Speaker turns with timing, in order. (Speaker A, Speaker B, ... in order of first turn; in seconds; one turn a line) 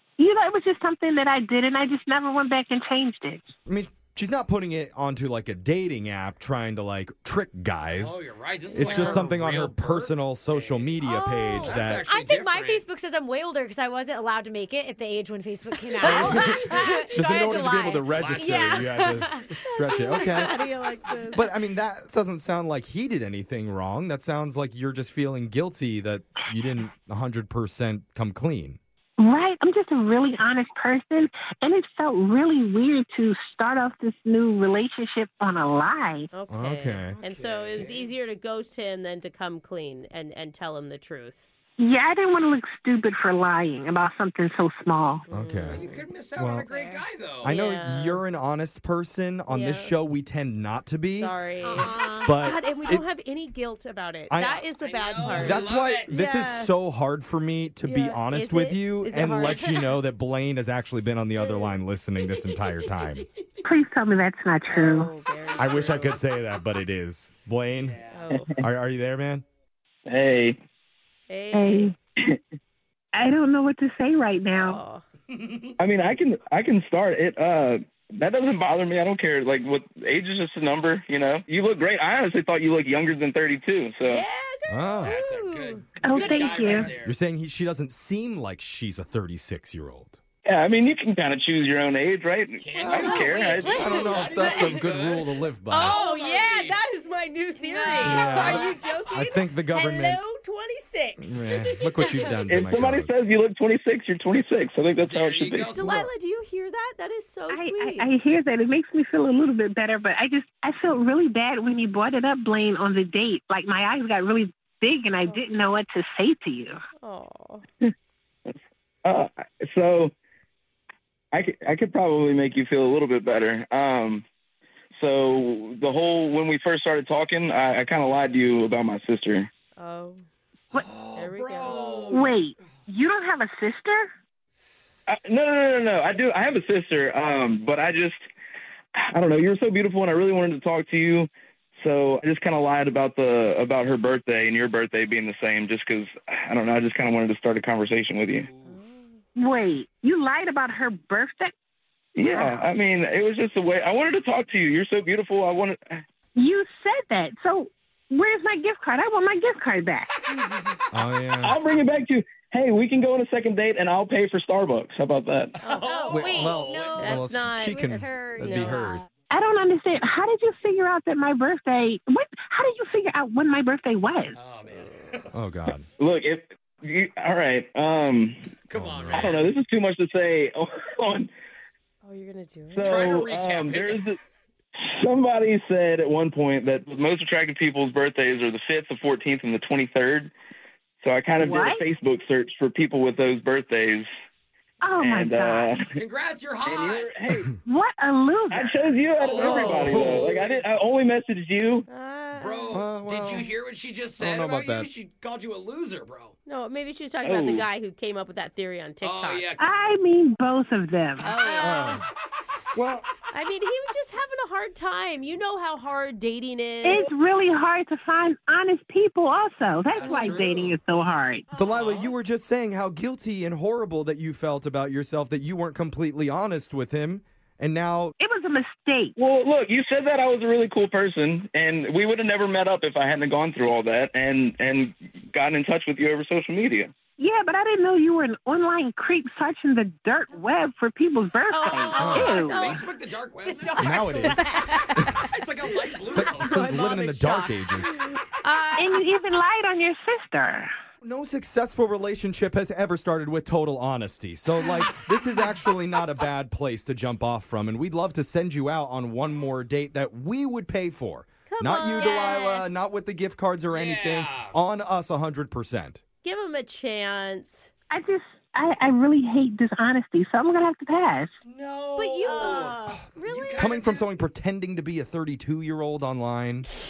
Speaker A: 0.2-3.5
Speaker B: 3.7-12.1
Speaker C: 7.9-11.0
Speaker D: 8.8-9.2
Speaker E: 11.1-20.5
Speaker C: 11.6-12.9
Speaker D: 15.9-17.2
Speaker B: 16.0-20.6
Speaker C: 18.1-19.1
Speaker D: 19.6-21.5
Speaker B: 21.3-28.8
Speaker A: 29.2-36.3
Speaker D: 36.3-41.5
Speaker B: 36.5-37.2
Speaker C: 37.1-38.1
Speaker A: 41.8-45.2
Speaker D: 45.3-46.1
Speaker B: 45.3-46.7
Speaker C: 45.7-47.6
Speaker E: 46.6-47.0
Speaker B: 47.4-53.0
Speaker D: 47.4-48.2
Speaker D: 49.5-49.9
Speaker D: 51.2-56.7
Speaker E: 51.6-52.3
Speaker B: 54.3-54.7
Speaker C: 54.8-56.1
Speaker B: 55.2-63.2
Speaker D: 57.8-59.8
Speaker D: 61.4-61.7
Speaker A: 63.6-65.1
Speaker D: 64.7-66.2
Speaker C: 65.6-66.1
Speaker B: 65.6-68.0
Speaker C: 67.8-68.2
Speaker D: 68.1-68.5
Speaker B: 68.6-69.5
Speaker F: 70.1-70.6
Speaker D: 71.3-71.9
Speaker A: 71.5-72.0
Speaker A: 73.1-74.8
Speaker D: 74.5-75.0
Speaker C: 75.3-75.8
Speaker F: 75.8-84.2
Speaker D: 84.1-85.0
Speaker B: 84.7-85.2
Speaker C: 85.0-87.2
Speaker E: 85.1-87.0
Speaker A: 86.0-86.9
Speaker B: 87.0-90.2
Speaker F: 90.5-94.5
Speaker C: 92.6-96.8
Speaker B: 92.8-96.0
Speaker D: 92.9-93.5
Speaker E: 93.7-94.8
Speaker D: 94.1-94.6
Speaker D: 95.7-101.8
Speaker E: 97.6-98.3
Speaker B: 98.0-100.2
Speaker C: 98.3-98.7
Speaker B: 101.2-103.1
Speaker F: 102.5-105.8
Speaker C: 105.0-106.1
Speaker D: 105.8-108.1
Speaker B: 105.8-106.1
Speaker A: 107.5-116.8
Speaker D: 117.0-117.6
Speaker F: 119.0-120.1
Speaker F: 121.3-124.2
Speaker F: 125.0-129.5
Speaker D: 129.8-130.2
Speaker C: 130.7-132.6
Speaker D: 131.1-132.3
Speaker A: 132.1-134.1
Speaker F: 135.1-138.2
Speaker F: 138.9-148.5
Speaker C: 148.5-148.8
Speaker D: 148.7-149.0
Speaker A: 149.4-151.5
Speaker F: 152.2-156.0
Speaker A: 152.2-152.7
Speaker A: 156.4-160.1
Speaker B: 160.9-161.6
Speaker F: 161.4-165.6
Speaker C: 165.6-167.2
Speaker D: 165.6-166.4
Speaker E: 165.9-168.9
Speaker B: 166.1-169.1
Speaker D: 167.0-169.0
Speaker A: 169.3-174.4
Speaker C: 174.3-175.4
Speaker B: 175.3-175.9
Speaker F: 176.0-178.5
Speaker C: 178.6-179.5
Speaker B: 178.7-179.4
Speaker F: 179.1-181.3
Speaker D: 182.0-183.1
Speaker F: 182.7-184.2
Speaker C: 182.8-184.1
Speaker F: 184.8-190.3
Speaker F: 191.0-194.1
Speaker A: 191.4-191.8
Speaker A: 194.8-195.8
Speaker F: 195.0-195.9
Speaker C: 195.9-197.1
Speaker F: 196.6-197.6
Speaker A: 197.6-199.0
Speaker F: 198.5-201.9
Speaker C: 199.2-200.6
Speaker B: 199.4-200.3
Speaker D: 201.9-202.8
Speaker C: 202.3-206.3
Speaker B: 202.7-203.5
Speaker B: 204.2-204.9
Speaker D: 206.5-209.5
Speaker F: 207.2-207.7
Speaker C: 209.0-209.6
Speaker A: 209.6-211.4
Speaker D: 211.2-212.0
Speaker E: 211.4-211.9
Speaker B: 211.6-212.0
Speaker B: 212.7-213.1
Speaker D: 213.3-217.1
Speaker A: 216.8-221.4
Speaker C: 219.9-220.8
Speaker B: 221.5-228.1
Speaker C: 221.6-222.1
Speaker A: 228.2-229.1
Speaker F: 229.2-236.9
Speaker A: 237.2-242.6
Speaker D: 241.5-242.8
Speaker C: 241.9-246.9
Speaker B: 242.0-242.4
Speaker D: 243.6-244.6
Speaker E: 243.6-244.8
Speaker B: 243.8-245.2
Speaker B: 246.1-248.0
Speaker D: 246.2-249.0
Speaker A: 248.8-250.7
Speaker B: 251.0-266.0
Speaker D: 261.5-262.7
Speaker E: 262.0-262.5
Speaker C: 263.7-264.6
Speaker D: 266.2-267.7
Speaker A: 267.9-271.3
Speaker C: 271.4-274.1
Speaker D: 271.9-273.8
Speaker E: 272.2-273.0
Speaker B: 273.5-276.7